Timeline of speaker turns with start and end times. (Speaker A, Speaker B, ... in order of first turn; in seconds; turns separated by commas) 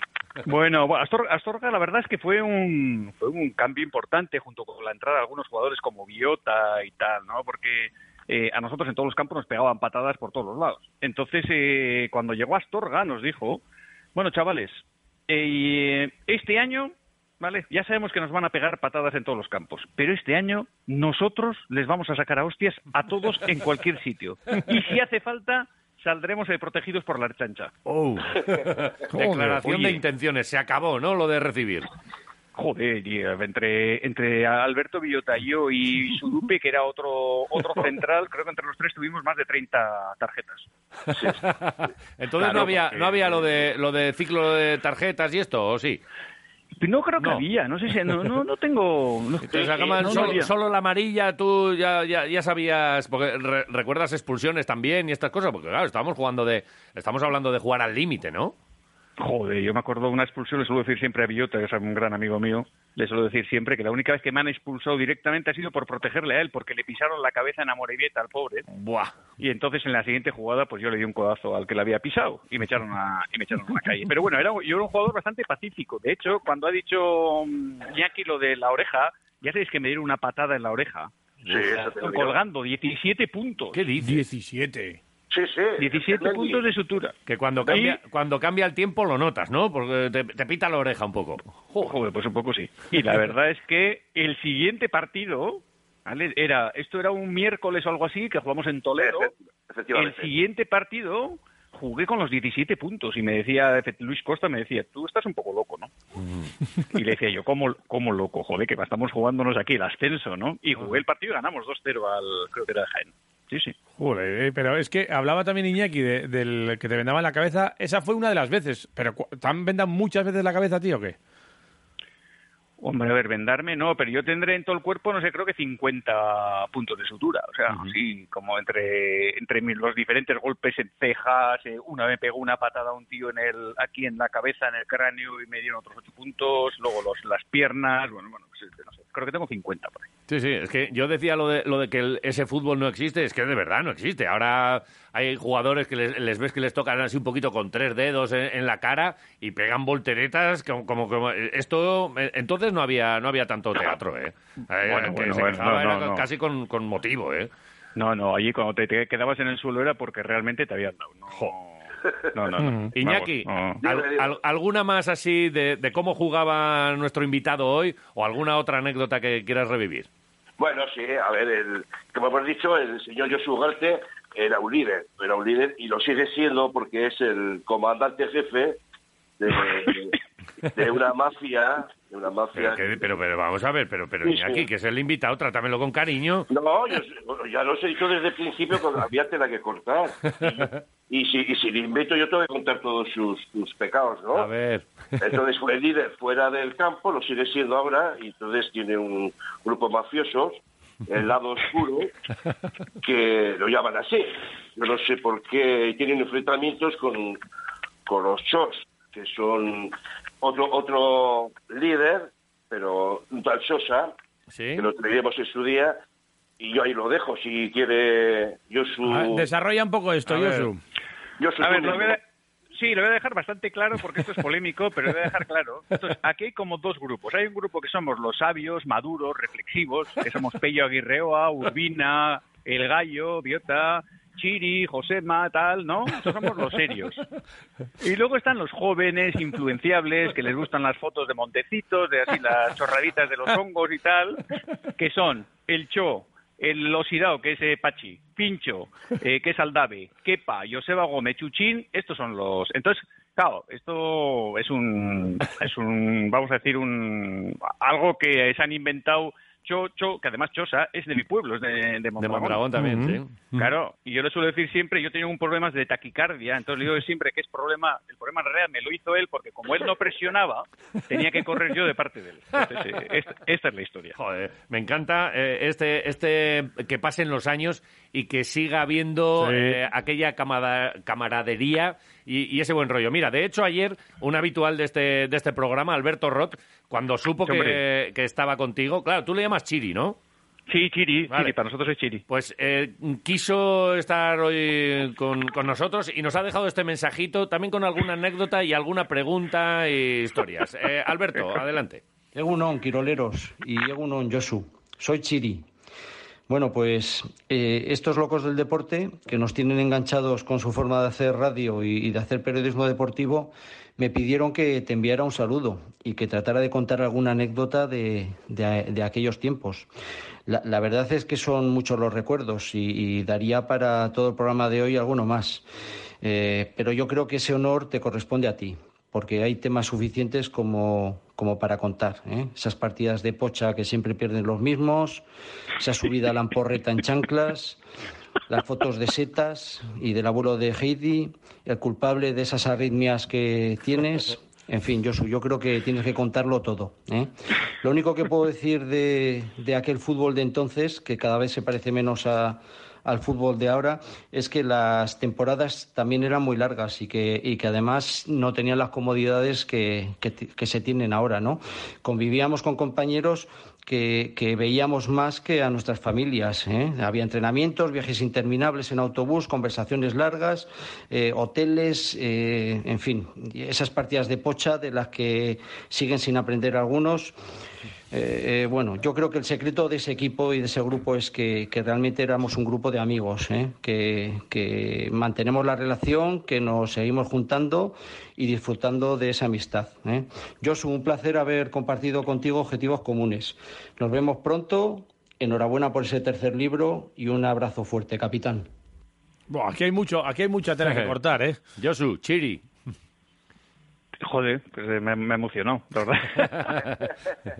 Speaker A: 0.5-13.6, Speaker A: 14.2-27.7, Speaker B: 27.9-31.9, Speaker C: 29.1-30.0, Speaker A: 32.5-40.7, Speaker B: 41.1-46.0, Speaker A: 42.4-43.4, Speaker A: 46.8-50.5, Speaker B: 47.2-47.4, Speaker B: 49.5-58.5, Speaker D: 49.5-50.0, Speaker A: 59.2-68.7, Speaker B: 68.7-69.1, Speaker A: 69.4-83.8, Speaker D: 81.5-82.4, Speaker B: 83.7-84.2, Speaker C: 84.0-85.0, Speaker D: 85.3-86.7, Speaker A: 85.8-87.2, Speaker B: 87.3-91.8, Speaker A: 87.7-88.0, Speaker A: 91.7-99.3, Speaker D: 99.0-100.3, Speaker A: 100.0-105.9, Speaker A: 106.9-113.8, Speaker C: 114.0-121.2, Speaker A: 122.8-140.1, Speaker B: 140.3-157.5, Speaker A: 154.8-156.3, Speaker A: 158.0-163.8, Speaker C: 162.6-162.9, Speaker B: 163.0-170.1, Speaker D: 163.8-164.4, Speaker D: 170.6-178.8, Speaker D: 179.4-180.2, Speaker D: 180.8-182.9, Speaker B: 182.6-186.5, Speaker D: 184.2-184.7, Speaker D: 186.5-194.5, Speaker B: 190.3-190.7, Speaker B: 194.3-194.9, Speaker D: 195.2-202.1, Speaker D: 203.0-207.4, Speaker D: 208.1-214.1, Speaker B: 214.5-214.9, Speaker D: 214.8-216.0, Speaker D: 216.6-219.5, Speaker C: 219.1-220.8, Speaker B: 220.4-220.7, Speaker D: 221.4-222.2, Speaker A: 221.6-222.2, Speaker A: 222.8-237.2, Speaker A: 238.0-244.4, Speaker A: 245.0-262.6, Speaker B: 262.2-263.6, Speaker C: 262.8-263.2, Speaker A: 263.5-274.2, Speaker B: 274.2-290.2, Speaker C: 279.4-279.8, Speaker A: 287.5-287.8, Speaker A: 290.7-292.2, Speaker B: 292.3-302.0, Speaker E: 302.3-305.7, Speaker E: 306.5-319.9, Speaker E: 320.5-325.7, Speaker E: 326.2-335.2, Speaker E: 335.8-337.8, Speaker E: 338.5-377.4, Speaker E: 378.1-398.7, Speaker C: 399.5-401.6, Speaker B: 400.9-401.1, Speaker B: 401.8-402.6, Speaker A: 404.2-406.7